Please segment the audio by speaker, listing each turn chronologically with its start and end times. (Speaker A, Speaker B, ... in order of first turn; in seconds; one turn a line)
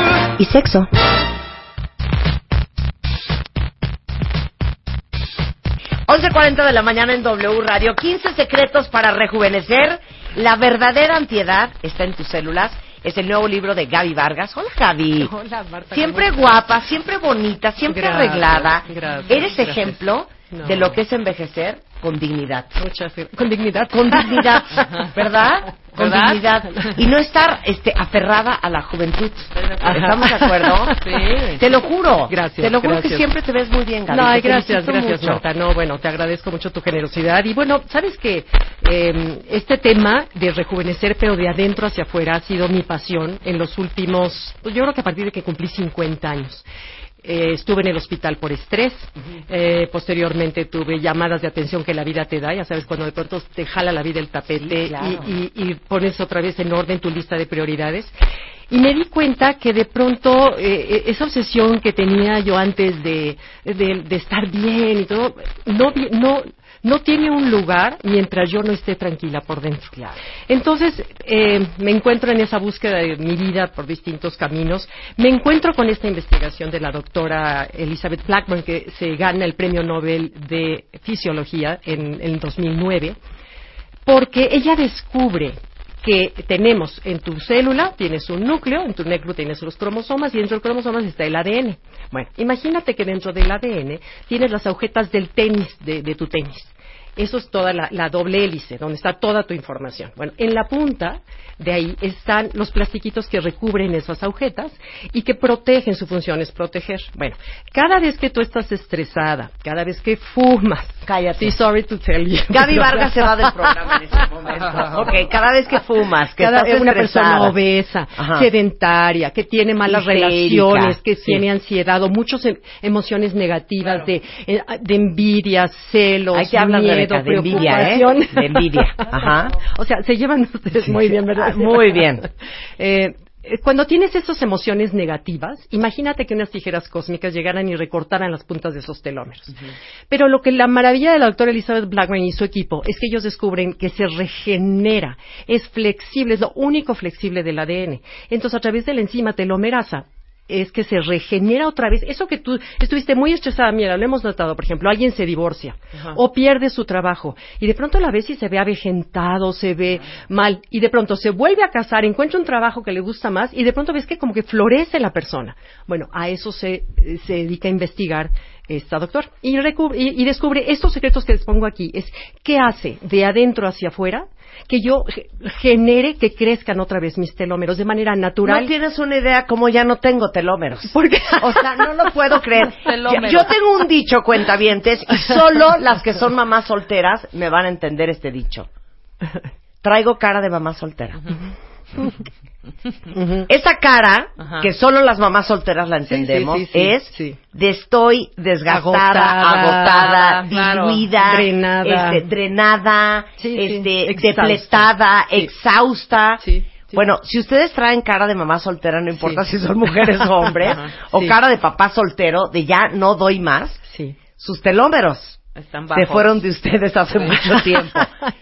Speaker A: 0.4-0.9
Speaker A: 6.1-15.3
Speaker B: 15.2-16.7
Speaker A: 15.9-22.8
Speaker B: 17.9-21.0
Speaker B: 22.8-25.1
Speaker A: 23.9-35.4
Speaker C: 26.0-26.4
Speaker C: 29.6-29.9
Speaker B: 29.8-31.6
Speaker C: 31.0-31.5
Speaker B: 32.3-33.3
Speaker B: 34.1-46.6
Speaker B: 47.2-58.1
Speaker A: 54.6-55.4
Speaker B: 58.7-69.9
Speaker B: 70.5-83.2
Speaker B: 84.1-113.7
Speaker A: 111.0-111.6
Speaker A: 112.5-117.6
Speaker B: 116.4-132.3
Speaker A: 118.2-118.5
Speaker A: 119.9-121.4
Speaker A: 126.3-129.5
Speaker A: 130.9-132.3
Speaker B: 132.8-139.6
Speaker B: 140.1-178.7
Speaker A: 178.4-188.7
Speaker B: 180.9-182.7
Speaker C: 182.8-183.5
Speaker A: 189.8-191.4
Speaker B: 193.1-193.5
Speaker A: 193.5-213.8
Speaker B: 196.1-197.4
Speaker B: 198.7-200.4
Speaker C: 200.2-201.0
Speaker B: 201.1-202.2
Speaker B: 203.4-205.5
Speaker B: 206.4-207.0
Speaker B: 209.2-209.4
Speaker B: 210.4-211.4
Speaker B: 213.9-214.2
Speaker A: 214.4-215.4
Speaker C: 215.6-216.3
Speaker A: 215.9-218.2